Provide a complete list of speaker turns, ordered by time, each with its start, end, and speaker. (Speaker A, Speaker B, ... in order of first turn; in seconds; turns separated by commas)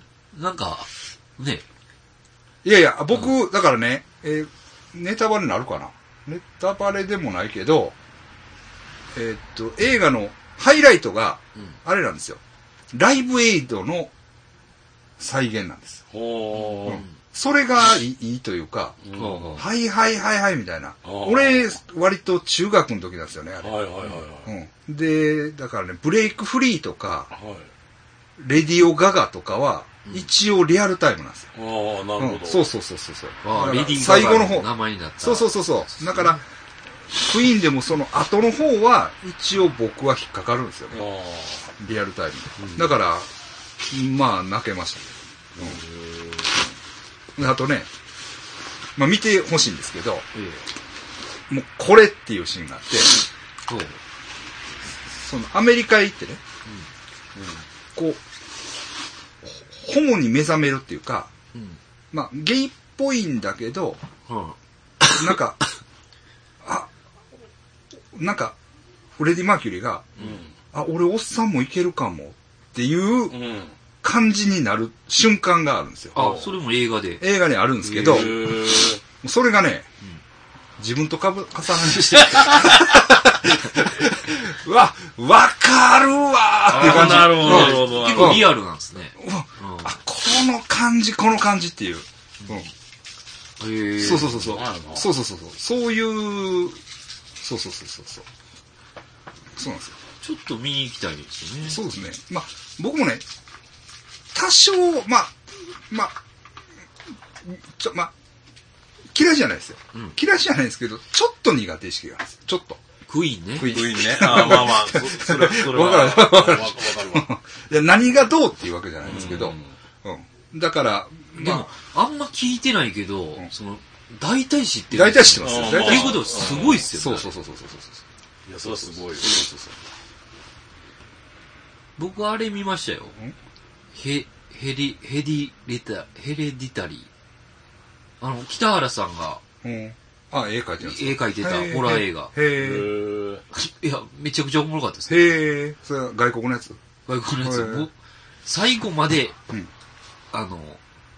Speaker A: 0.3-1.6, Speaker B: 2.6-8.0, Speaker B: 9.1-12.4, Speaker B: 12.9-14.1, Speaker B: 15.2-16.0, Speaker C: 16.1-17.0, Speaker A: 16.7-17.1, Speaker B: 16.9-19.0, Speaker C: 19.0-19.6, Speaker A: 19.1-19.6, Speaker B: 19.6-23.7, Speaker C: 21.0-21.7, Speaker C: 23.6-24.5, Speaker B: 24.4-27.3, Speaker C: 27.3-27.7, Speaker B: 28.4-31.5, Speaker C: 31.5-32.7, Speaker B: 32.2-36.4, Speaker A: 33.4-36.4, Speaker B: 37.1-41.0, Speaker C: 40.9-41.7, Speaker B: 41.8-43.3, Speaker C: 42.6-42.9, Speaker B: 43.9-45.8, Speaker B: 47.4-47.9, Speaker B: 49.0-50.2, Speaker A: 50.3-50.6, Speaker B: 51.5-53.1, Speaker A: 53.7-54.0, Speaker B: 55.1-56.4, Speaker C: 57.3-57.6, Speaker B: 57.9-58.2, Speaker B: 59.4-61.3, Speaker A: 61.5-61.8, Speaker B: 62.1-64.0, Speaker A: 64.3-65.3, Speaker B: 65.1-65.6, Speaker B: 66.6-66.9, Speaker B: 68.1-68.6, Speaker B: 69.2-70.1, Speaker C: 70.2-70.5, Speaker B: 70.7-73.4, Speaker C: 73.3-73.8, Speaker B: 74.0-76.2, Speaker A: 76.1-77.2, Speaker C: 76.1-76.5, Speaker B: 77.2-78.6, Speaker C: 77.8-79.0, Speaker A: 78.0-78.3, Speaker B: 79.2-79.9, Speaker B: 80.8-88.6, Speaker C: 82.1-83.0, Speaker C: 86.7-88.5, Speaker A: 86.7-89.9, Speaker B: 89.2-92.7, Speaker A: 93.6-94.6, Speaker B: 94.0-96.8, Speaker C: 94.4-95.1, Speaker B: 97.4-98.2, Speaker B: 99.5-100.0, Speaker A: 100.2-101.8, Speaker B: 101.6-103.2, Speaker B: 104.3-105.4, Speaker B: 105.9-106.2, Speaker B: 107.4-108.1, Speaker B: 109.1-112.8, Speaker A: 113.1-113.8, Speaker B: 113.5-121.7, Speaker C: 113.7-117.3, Speaker C: 119.0-119.7, Speaker A: 121.3-127.3, Speaker B: 124.9-128.0, Speaker C: 125.4-126.8, Speaker C: 128.5-129.4, Speaker B: 128.7-129.7, Speaker A: 132.0-133.1, Speaker A: 133.9-137.1, Speaker A: 138.2-139.4, Speaker B: 139.6-142.9, Speaker A: 140.8-142.3, Speaker C: 142.5-143.4, Speaker A: 143.5-145.4, Speaker B: 145.1-146.8, Speaker A: 147.1-147.9, Speaker B: 147.4-147.9, Speaker A: 148.4-149.3, Speaker A: 150.3-150.8